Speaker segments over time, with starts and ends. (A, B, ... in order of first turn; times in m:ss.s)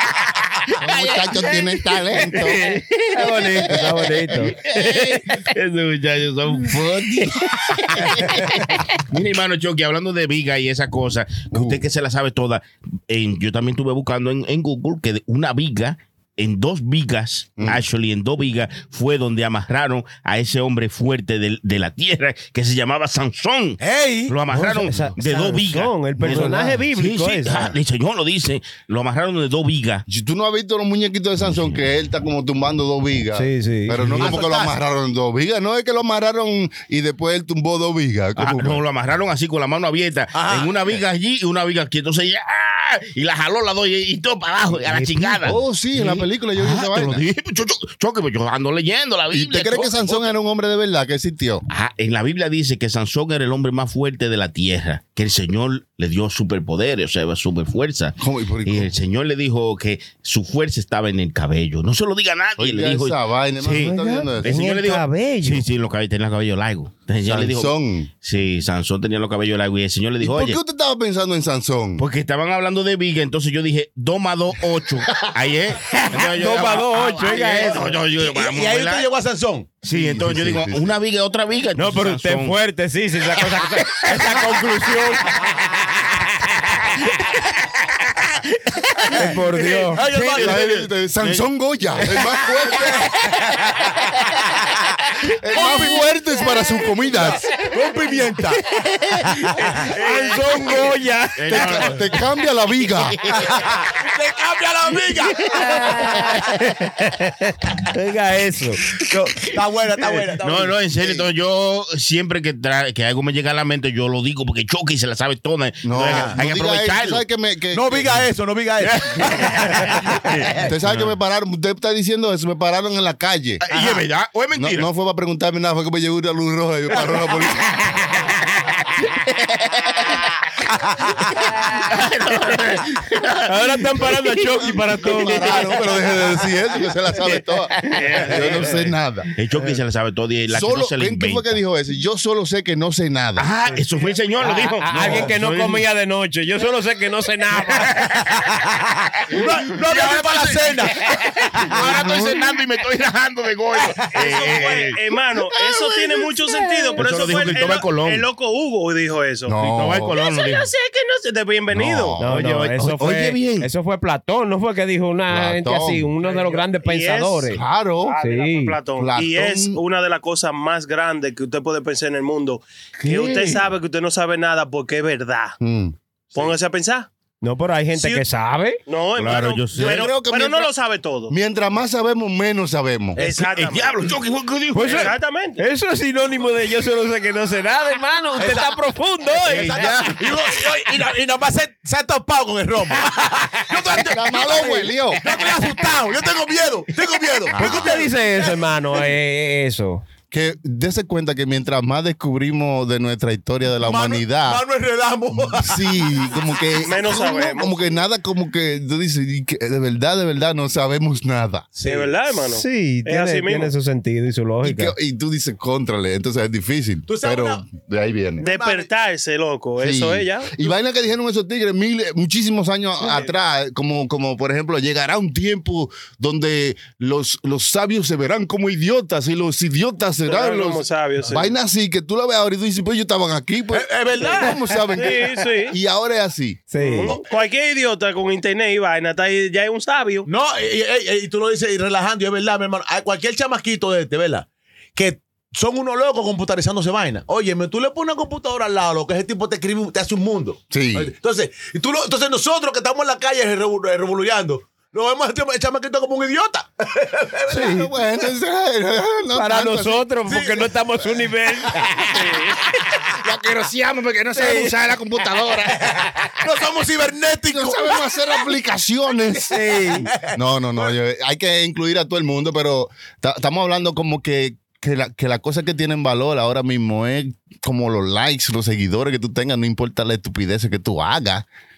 0:00.7-0:01.6 A
0:00.8-0:02.6 B
0:02.2-0:03.8 A
0:03.1-0:04.6 C
0:03.7-0:04.5 B
0:04.4-0:30.0 A
0:06.6-0:08.5 B
0:08.2-0:08.5 C
0:11.5-0:11.8 B
0:17.6-0:17.8 B
0:23.8-0:24.3 D
0:24.5-0:27.7 C
0:30.1-0:38.8 B
0:31.4-0:31.7 A
0:33.3-0:34.2 C
0:34.2-0:34.8 D
0:38.4-0:50.3 A
0:40.3-0:41.0 D
0:44.8-0:45.6 C
0:45.4-0:47.2 B
0:49.3-0:51.6 B
0:51.7-1:10.6 A
0:58.2-0:58.9 B
1:02.6-1:04.6 B
1:03.8-1:05.6 C
1:07.2-1:08.1 B
1:10.2-1:12.0 B
1:12.0-1:19.1 A
1:16.1-1:17.9 C
1:18.1-1:19.7 D
1:19.8-1:22.6 A
1:19.9-1:20.9 B
1:21.8-1:25.3 C
1:24.1-1:29.2 A
1:29.1-1:30.0 C
1:29.2-1:30.9 D
1:29.8-1:31.4 A
1:30.3-1:33.0 B
1:32.7-1:33.2 D
1:35.4-1:37.5 B
1:35.5-1:36.1 D
1:35.6-1:36.0 C
1:37.1-1:38.6 D
1:38.9-1:41.9 C
1:39.5-1:39.9 D
1:40.3-1:40.6 A
1:41.4-1:42.2 A
1:41.5-1:43.2 B
1:42.8-1:43.7 A
1:43.4-1:45.6 D
1:45.4-1:48.8 C
1:48.9-1:51.3 D
1:50.4-1:57.2 A
1:55.8-1:58.2 B
1:56.0-1:56.4 D
1:57.7-2:00.7 D
1:58.8-2:01.1 A
2:00.6-2:03.6 B
2:03.6-2:04.9 A
2:03.7-2:04.0 D
2:04.6-2:07.9 B
2:07.6-2:10.2 A
2:11.5-2:15.5 A
2:13.4-2:15.7 C
2:14.9-2:19.3 B
2:17.8-2:21.6 A
2:20.5-2:23.5 B
2:23.4-2:25.8 A
2:24.4-2:27.9 C
2:29.3-2:31.8 D
2:29.9-2:30.5 A
2:31.6-2:35.0 A
2:31.7-2:32.4 B
2:33.8-2:34.9 D
2:34.1-2:39.6 E
2:37.0-2:38.2 A
2:39.5-2:40.1 B
2:39.6-2:40.7 A
2:40.1-2:42.2 E
2:41.7-2:42.3 B
2:42.2-2:47.6 C
2:42.2-2:43.7 A
2:45.3-2:46.1 B
2:46.2-2:47.5 E
2:47.5-2:48.2 B
2:48.0-2:55.5 E
2:48.2-2:48.8 C
2:49.0-2:49.8 B
2:53.0-2:53.6 A
2:55.6-2:55.9 B
2:56.3-2:57.1 E
2:57.4-2:58.8 C
2:57.9-2:58.2 E
2:58.9-3:01.3 E
2:59.2-3:00.1 A
2:59.7-3:00.7 B
3:01.3-3:03.2 B
3:03.2-3:04.0 E
3:03.2-3:05.1 A
3:04.7-3:09.9 C
3:04.8-3:05.6 E
3:08.4-3:14.6 D
3:09.7-3:10.4 A
3:13.7-3:14.2 A
3:14.0-3:15.2 B
3:15.2-3:18.6 D
3:17.5-3:18.0 B
3:17.6-3:20.0 C
3:20.3-3:24.6 B
3:23.8-3:26.0 D
3:25.3-3:31.7 B
3:26.8-3:27.9 E
3:31.8-3:32.1 D
3:31.8-3:33.7 E
3:32.5-3:34.9 C
3:34.6-3:38.4 B
3:37.1-3:37.6 D
3:38.4-3:38.9 D
3:38.4-3:40.7 E
3:39.8-3:56.7 B
3:50.2-3:51.5 E
3:53.7-3:54.6 D
3:54.9-3:55.8 E
3:56.7-3:57.1 C
3:56.7-4:00.3 E
4:00.3-4:17.9 D
4:10.7-4:11.1 B
4:17.5-4:20.1 B
4:19.3-4:22.0 C
4:20.2-4:20.7 D
4:23.2-4:25.8 A
4:23.3-4:25.3 B
4:24.3-4:24.7 C
4:25.8-4:28.3 D
4:27.5-4:41.4 B
4:29.5-4:30.1 C
4:30.2-4:30.9 D